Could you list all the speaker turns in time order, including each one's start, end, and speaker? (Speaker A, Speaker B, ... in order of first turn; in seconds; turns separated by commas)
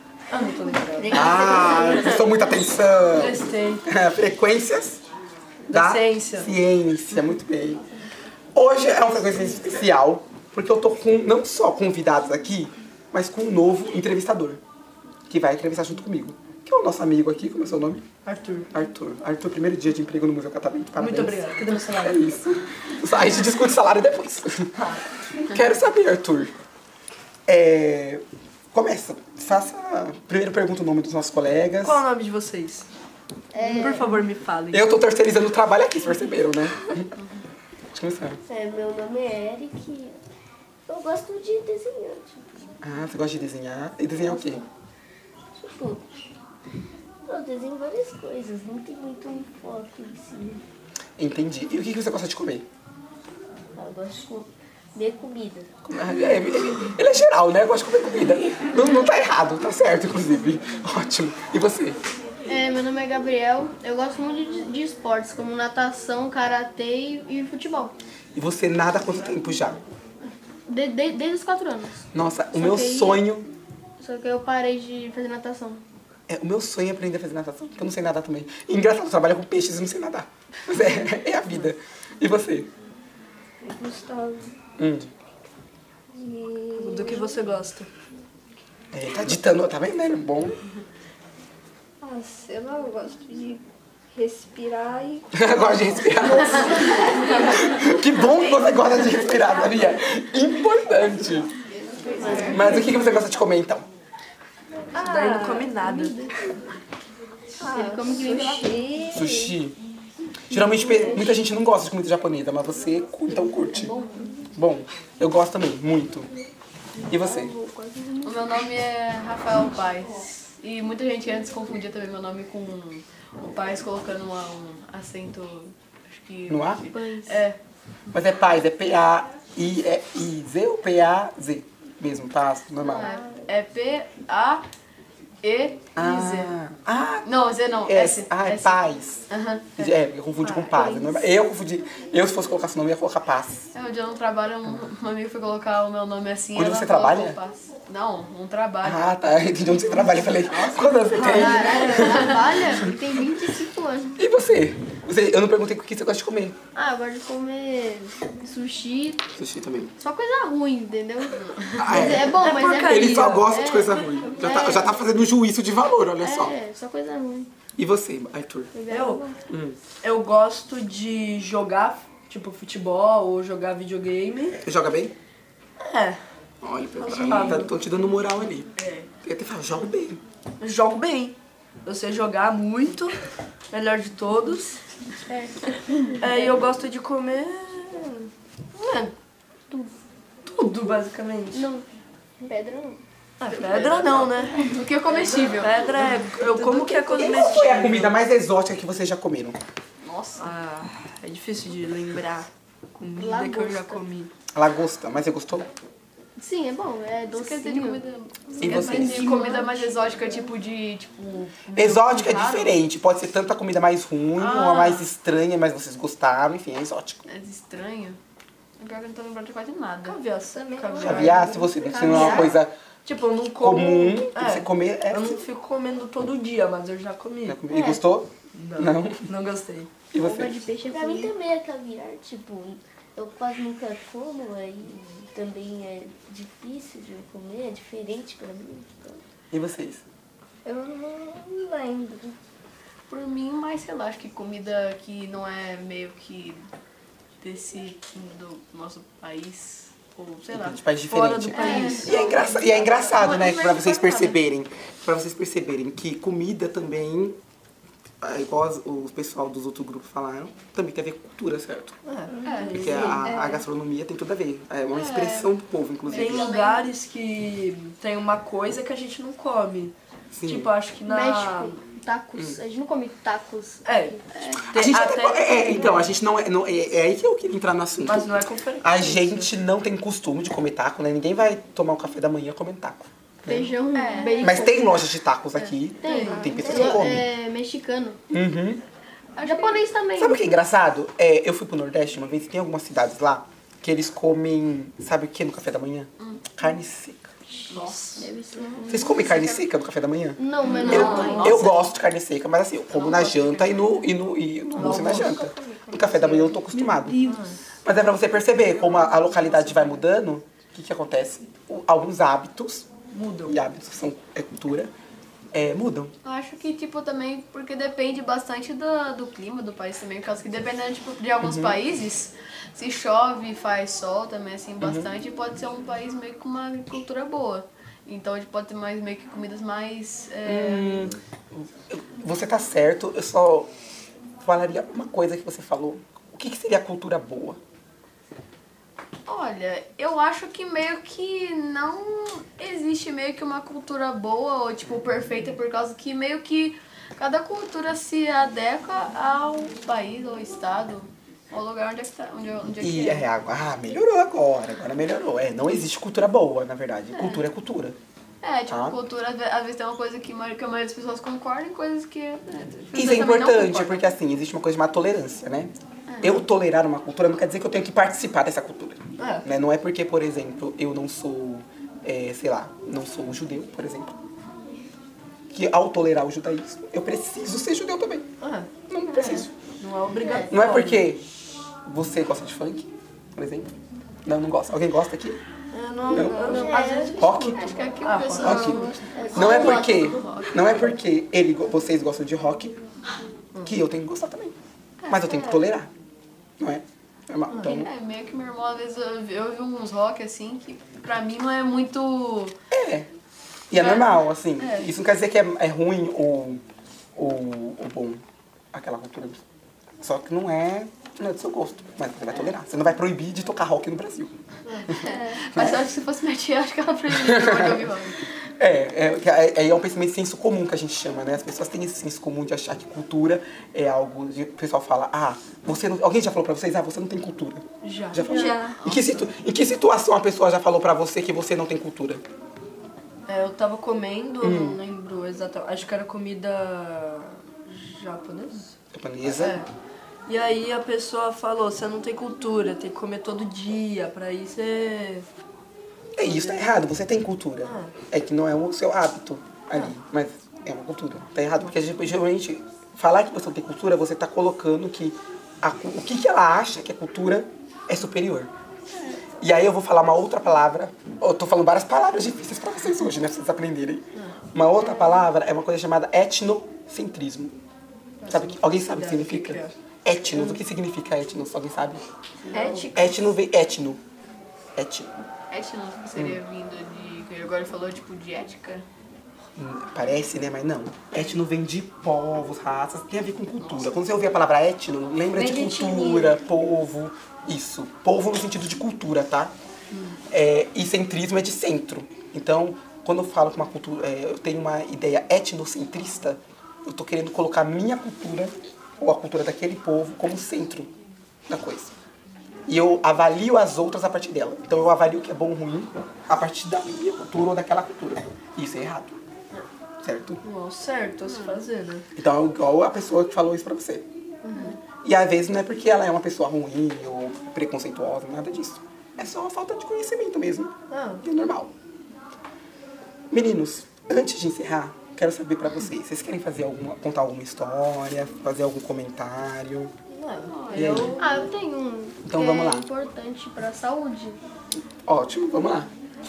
Speaker A: 0.3-1.3, Speaker B: 1.0-2.1, Speaker C: 1.0-2.3, Speaker D: 1.1-2.1, Speaker E: 1.1-5.0, Speaker A: 3.1-3.8, Speaker E: 5.7-7.8, Speaker A: 5.7-6.5, Speaker E: 8.5-14.6, Speaker E: 15.3-18.0, Speaker A: 18.2-18.7, Speaker E: 18.7-24.8, Speaker A: 21.0-22.3, Speaker E: 25.4-26.5, Speaker E: 27.5-32.0, Speaker A: 31.8-32.9, Speaker B: 33.5-34.2, Speaker A: 33.6-34.9, Speaker E: 34.7-37.1, Speaker C: 37.1-37.4, Speaker E: 37.9-38.4, Speaker B: 38.5-40.2, Speaker B: 40.9-42.7, Speaker E: 42.8-44.6, Speaker B: 44.2-44.6, Speaker B: 45.5-46.0, Speaker B: 47.2-50.6, Speaker E: 51.2-52.7, Speaker B: 53.7-55.7, Speaker E: 55.9-62.0, Speaker D: 62.5-68.0, Speaker E: 68.3-69.8, Speaker D: 70.7-73.3, Speaker E: 72.1-73.5, Speaker D: 74.0-75.8, Speaker E: 76.3-82.7, Speaker A: 83.6-84.5, Speaker B: 84.1-84.4, Speaker E: 84.8-85.1, Speaker A: 86.1-87.9, Speaker B: 86.1-87.3, Speaker E: 88.9-90.6, Speaker A: 92.0-93.6, Speaker B: 92.5-93.6, Speaker A: 94.1-95.3, Speaker B: 94.3-94.6, Speaker E: 95.3-101.5, Speaker C: 96.4-97.0, Speaker B: 96.4-97.3, Speaker D: 102.0-102.9, Speaker B: 102.1-102.7, Speaker E: 102.5-103.8, Speaker A: 104.9-106.2, Speaker B: 104.9-106.1, Speaker D: 105.8-106.1, Speaker B: 107.6-109.5, Speaker D: 107.6-108.9, Speaker A: 108.2-108.7, Speaker E: 109.1-109.8, Speaker E: 110.5-113.9, Speaker D: 113.7-114.3, Speaker E: 114.5-116.3, Speaker E: 117.1-117.5, Speaker B: 117.1-118.4, Speaker C: 118.2-127.6, Speaker E: 126.5-126.9, Speaker E: 128.1-133.2, Speaker C: 132.9-134.6, Speaker C: 135.4-136.6, Speaker E: 135.9-143.7, Speaker C: 137.2-141.1, Speaker C: 143.7-149.0, Speaker E: 146.5-147.4, Speaker E: 148.8-152.9, Speaker C: 149.9-152.5, Speaker A: 151.1-152.2, Speaker D: 151.1-154.2, Speaker E: 154.2-156.6, Speaker D: 156.7-159.2, Speaker E: 159.3-159.9, Speaker D: 160.0-165.0, Speaker E: 161.8-166.6, Speaker A: 162.4-163.6, Speaker D: 166.2-167.5, Speaker E: 167.8-168.7, Speaker D: 168.7-169.4, Speaker A: 168.9-169.3, Speaker E: 169.5-169.8, Speaker A: 170.0-174.6, Speaker E: 174.6-175.1, Speaker A: 175.8-176.2, Speaker E: 176.6-178.7, Speaker A: 176.9-177.7, Speaker C: 178.8-179.1, Speaker E: 179.2-180.2, Speaker A: 180.6-183.2, Speaker A: 183.7-184.8, Speaker D: 185.3-186.3, Speaker A: 186.2-189.1, Speaker A: 190.4-191.7, Speaker D: 191.5-191.8, Speaker D: 192.4-193.0, Speaker A: 193.4-198.2, Speaker C: 193.5-197.6, Speaker E: 197.1-199.6, Speaker C: 200.0-200.5, Speaker A: 200.4-204.3, Speaker D: 203.0-204.0, Speaker E: 204.5-205.7, Speaker D: 206.4-208.0, Speaker C: 207.3-212.8, Speaker D: 208.5-210.5, Speaker E: 208.6-209.3, Speaker E: 211.7-217.2, Speaker C: 214.3-215.1, Speaker C: 217.2-218.2, Speaker C: 218.8-220.2, Speaker A: 220.0-222.5, Speaker B: 220.7-221.1, Speaker E: 221.0-222.7, Speaker C: 221.0-221.4, Speaker D: 221.8-222.6, Speaker A: 223.0-227.6, Speaker E: 223.5-225.4, Speaker E: 227.4-229.2, Speaker D: 227.7-228.0, Speaker A: 228.5-229.9, Speaker E: 230.1-230.7, Speaker D: 230.2-231.3, Speaker B: 230.9-239.2, Speaker E: 239.5-240.0, Speaker B: 240.7-242.3, Speaker C: 243.1-246.7, Speaker C: 247.4-250.8, Speaker E: 250.5-257.4, Speaker A: 251.1-253.1, Speaker C: 251.5-254.4, Speaker D: 251.7-252.2, Speaker E: 258.2-261.9, Speaker A: 262.1-263.4, Speaker C: 262.4-262.9, Speaker E: 262.7-266.5, Speaker B: 263.0-263.6, Speaker C: 264.9-265.5, Speaker C: 266.1-266.8, Speaker A: 266.1-271.8, Speaker E: 270.3-270.7, Speaker D: 271.1-274.6, Speaker A: 273.8-276.1, Speaker E: 274.7-283.7, Speaker A: 278.0-279.5, Speaker D: 283.4-285.1, Speaker C: 283.9-284.7, Speaker E: 284.4-287.2, Speaker D: 286.0-288.2, Speaker A: 286.0-286.6, Speaker B: 286.3-287.0, Speaker E: 288.3-288.8, Speaker C: 289.4-289.8, Speaker D: 289.4-290.4, Speaker E: 290.2-297.3, Speaker A: 297.7-298.2, Speaker D: 298.2-299.6, Speaker B: 298.5-298.9, Speaker E: 298.9-307.2, Speaker D: 300.4-301.9, Speaker B: 300.5-301.3, Speaker A: 300.6-301.5, Speaker A: 302.9-303.8, Speaker A: 304.7-305.8, Speaker B: 304.8-306.4, Speaker A: 306.4-307.6, Speaker E: 307.8-312.9, Speaker A: 313.1-313.6, Speaker E: 313.4-314.9, Speaker E: 315.5-316.1, Speaker C: 316.2-331.1, Speaker E: 321.4-321.8, Speaker E: 324.8-325.1, Speaker E: 330.4-333.7, Speaker E: 334.4-337.6, Speaker C: 339.2-353.3, Speaker E: 352.8-358.0, Speaker C: 357.1-357.4, Speaker C: 358.4-364.1, Speaker E: 358.7-359.0, Speaker E: 362.9-374.2, Speaker C: 366.1-366.4, Speaker A: 369.2-369.4, Speaker E: 375.5-378.3, Speaker A: 378.4-378.7, Speaker E: 378.9-379.5, Speaker A: 379.8-381.1, Speaker B: 380.2-380.5, Speaker E: 380.5-381.2, Speaker E: 381.9-383.7, Speaker E: 384.2-385.4, Speaker A: 385.7-389.2, Speaker E: 386.1-386.6, Speaker D: 386.1-387.5, Speaker B: 386.3-387.4, Speaker E: 387.2-387.6, Speaker C: 387.5-390.9, Speaker E: 388.4-392.8, Speaker D: 388.8-390.1, Speaker B: 389.1-390.1, Speaker E: 393.6-394.5, Speaker C: 395.0-395.6, Speaker E: 395.1-395.9, Speaker E: 396.6-397.9, Speaker C: 397.6-402.6, Speaker E: 402.7-403.1, Speaker E: 403.7-406.6, Speaker C: 403.7-404.9, Speaker E: 407.1-408.2, Speaker E: 408.7-409.4, Speaker E: 410.0-414.3, Speaker C: 414.8-418.3, Speaker E: 414.9-415.8, Speaker E: 417.1-432.2, Speaker A: 427.8-428.8, Speaker C: 428.7-429.2, Speaker A: 433.3-438.7, Speaker E: 434.4-434.8, Speaker E: 438.9-439.6, Speaker A: 439.3-439.7, Speaker A: 440.3-445.3, Speaker E: 446.1-458.5, Speaker A: 446.2-446.6, Speaker A: 447.6-447.9, Speaker E: 459.4-467.5, Speaker A: 468.2-469.7, Speaker E: 468.3-472.0, Speaker A: 472.4-472.9, Speaker D: 472.5-472.9, Speaker B: 472.5-473.0, Speaker E: 472.9-474.0, Speaker E: 474.7-475.1, Speaker C: 475.5-478.8, Speaker E: 479.6-489.5, Speaker C: 483.6-483.9, Speaker A: 485.4-486.4, Speaker C: 489.9-490.2, Speaker E: 490.3-500.9, Speaker E: 501.5-501.9, Speaker E: 502.7-509.2, Speaker E: 510.0-510.4, Speaker A: 510.4-512.0, Speaker C: 511.2-511.6, Speaker E: 512.1-514.0, Speaker A: 514.5-514.7, Speaker E: 515.0-521.7, Speaker A: 520.9-521.2, Speaker E: 523.3-529.9, Speaker A: 530.1-531.2, Speaker C: 530.4-531.2, Speaker E: 530.7-531.1, Speaker D: 531.2-534.4, Speaker E: 532.3-532.9, Speaker E: 535.0-535.9